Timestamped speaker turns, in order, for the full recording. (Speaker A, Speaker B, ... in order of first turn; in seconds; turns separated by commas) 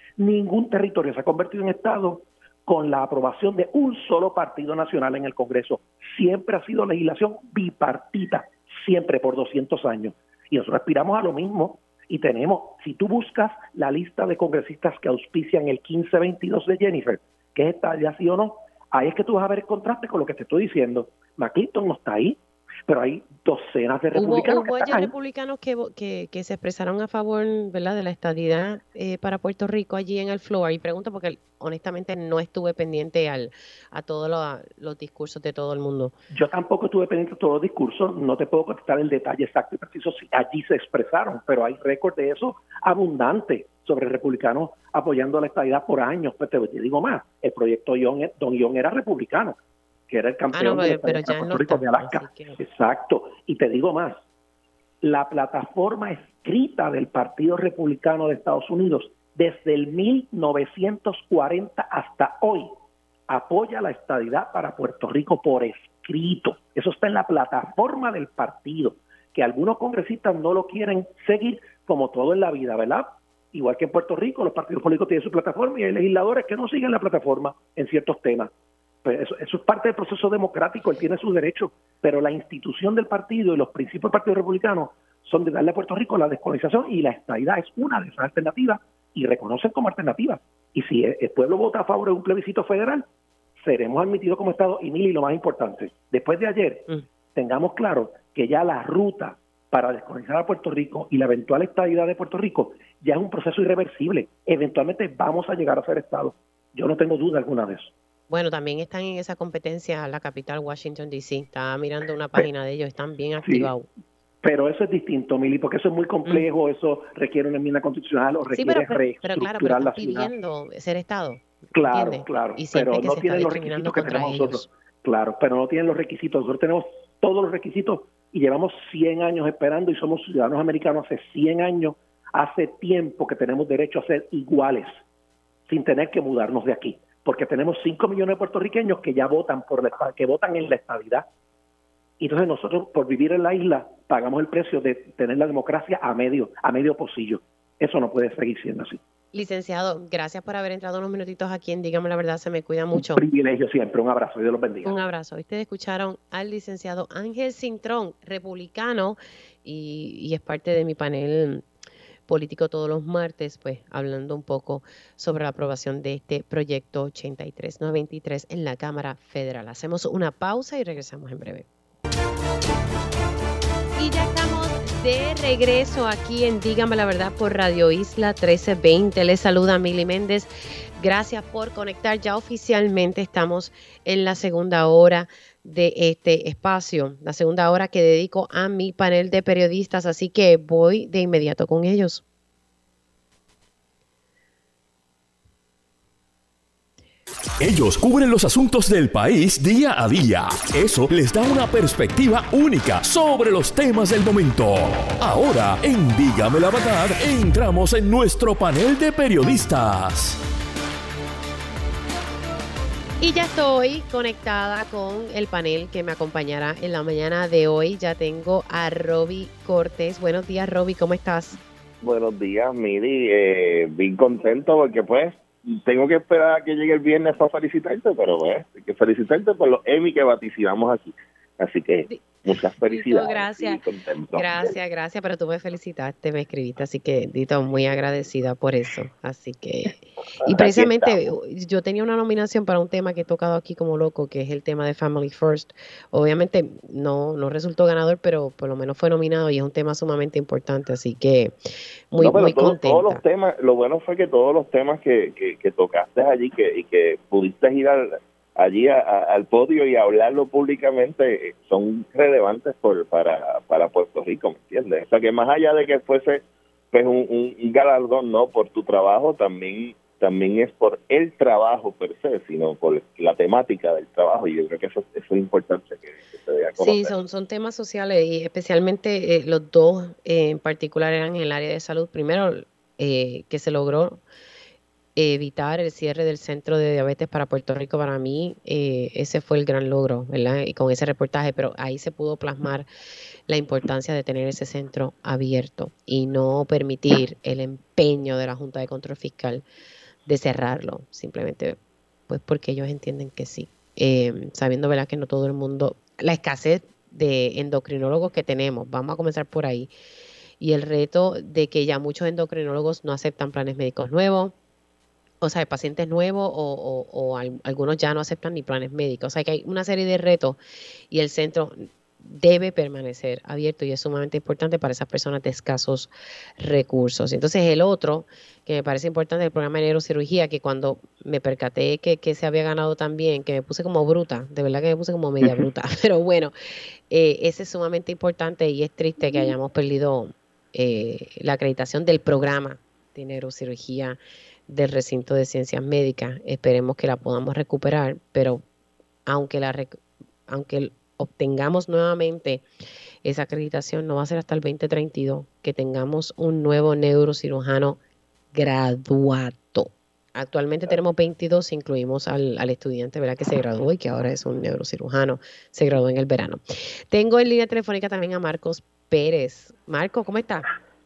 Speaker A: 0.2-25.1, Speaker B: 24.1-36.1, Speaker A: 36.3-49.6, Speaker A: 50.1-54.2, Speaker B: 50.5-52.6, Speaker A: 55.0-62.7, Speaker A: 63.3-78.5, Speaker A: 79.0-93.0, Speaker A: 93.6-107.9, Speaker B: 108.3-113.9, Speaker A: 113.4-113.7, Speaker A: 114.4-120.3, Speaker B: 118.5-124.7, Speaker A: 121.7-135.0, Speaker A: 135.7-141.3, Speaker A: 142.2-149.0, Speaker B: 149.3-153.2, Speaker A: 152.9-155.0, Speaker B: 154.8-161.6, Speaker B: 162.3-171.7, Speaker B: 174.0-192.2, Speaker C: 197.6-210.4, Speaker B: 213.2-221.6, Speaker D: 222.0-234.7, Speaker B: 232.1-251.5, Speaker D: 240.4-241.2, Speaker B: 252.1-253.2, Speaker D: 252.2-277.1, Speaker B: 276.8-284.2, Speaker B: 285.1-292.9, Speaker B: 293.5-299.6, Speaker B: 300.3-301.8, Speaker B: 302.3-309.9, Speaker B: 310.6-314.5, Speaker B: 315.4-320.6, Speaker B: 321.1-326.1, Speaker B: 326.6-336.5, Speaker B: 337.1-348.6, Speaker B: 349.3-352.6, Speaker B: 353.2-358.0, Speaker B: 358.5-370.7